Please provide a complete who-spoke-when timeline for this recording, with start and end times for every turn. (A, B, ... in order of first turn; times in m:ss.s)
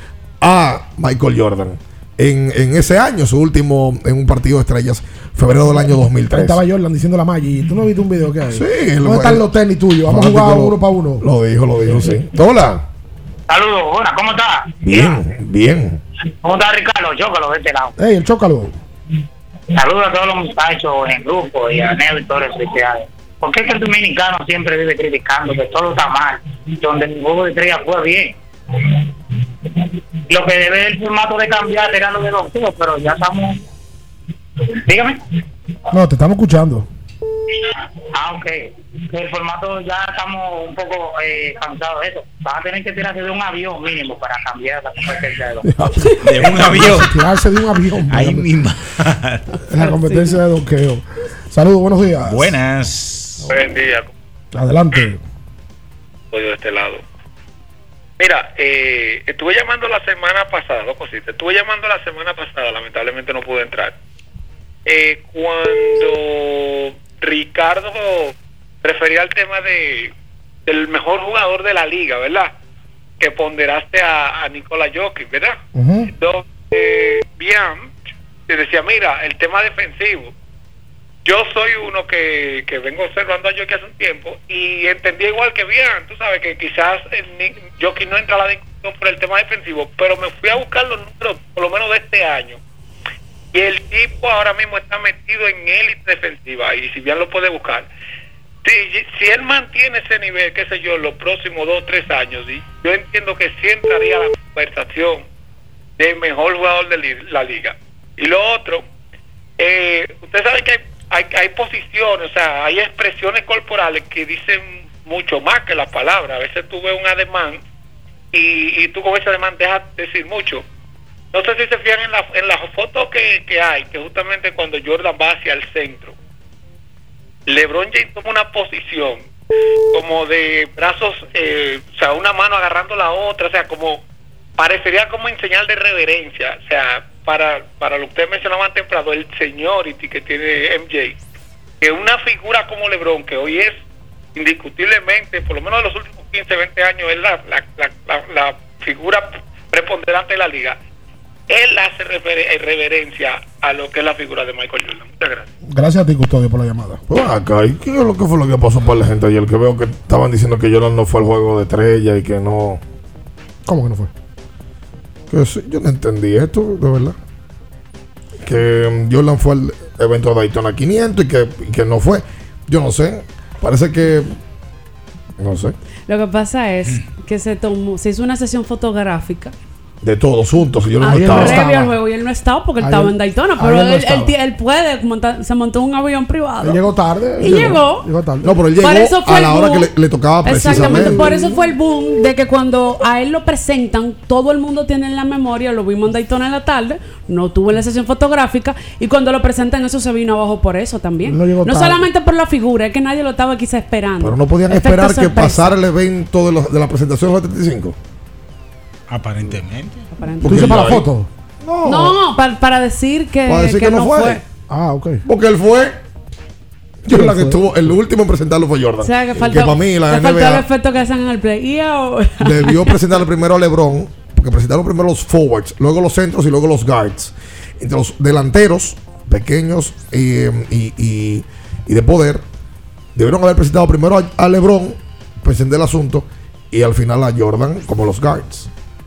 0:00.4-0:06.6 A
0:05.8-0:11.2 B
0:08.4-0:09.5 A
0:10.1-0:12.8 A
0:13.5-0:15.1 C
0:14.8-0:16.0 A
0:16.4-0:17.8 C
0:18.0-0:18.8 B
0:19.8-0:28.2 C
0:30.4-0:33.5 C
0:35.9-0:36.9 B
0:38.2-0:38.5 C
0:39.2-0:45.6 C
0:45.6-0:48.5 B
0:46.2-0:47.1 D
0:48.1-0:49.4 D
0:49.7-0:52.5 B
0:49.8-0:50.3 E
0:52.2-0:53.5 D
0:53.5-0:54.1 F
0:54.5-0:55.2 B
0:56.3-0:57.0 F
0:58.2-1:03.9 F
1:04.8-1:10.1 F
1:10.6-1:12.5 F
1:13.2-1:15.6 F
1:15.7-1:16.1 B
1:16.1-1:17.9 F
1:18.5-1:20.3 F
1:21.2-1:32.6 F
1:33.5-1:37.9 F
1:38.6-1:45.2 F
1:46.0-1:48.8 F
1:49.6-1:57.6 F
1:58.3-2:00.6 F
2:01.3-2:06.1 F
2:07.5-2:09.2 F
2:09.9-2:14.0 F
2:14.6-2:21.2 F
2:21.8-2:23.8 F
2:24.4-2:30.8 F
2:31.5-2:35.5 F
2:35.7-2:37.0 B
2:37.1-2:42.8 A
2:43.6-2:44.1 B
2:45.3-2:47.2 A
2:48.4-2:54.3 A
2:55.4-2:55.8 A
2:56.1-2:59.5 E
3:00.0-3:01.6 A
3:01.0-3:06.8 E
3:01.0-3:01.9 B
3:02.8-3:04.3 B
3:06.6-3:08.6 B
3:07.4-3:08.1 E
3:08.4-3:11.3 A
3:08.8-3:09.9 E
3:10.4-3:25.7 E
3:10.6-3:11.6 B
3:21.2-3:22.1 B
3:24.2-3:28.0 A
3:29.1-3:30.0 D
3:30.1-3:30.8 E
3:30.4-3:31.1 A
3:30.4-3:31.3 B
3:31.6-3:32.2 A
3:31.8-3:34.4 E
3:33.4-3:34.4 A
3:34.7-3:35.2 B
3:35.2-3:36.0 A
3:37.0-3:40.6 A
3:37.1-3:37.9 B
3:39.0-3:43.0 E
3:42.4-3:52.4 A
3:53.1-3:58.7 A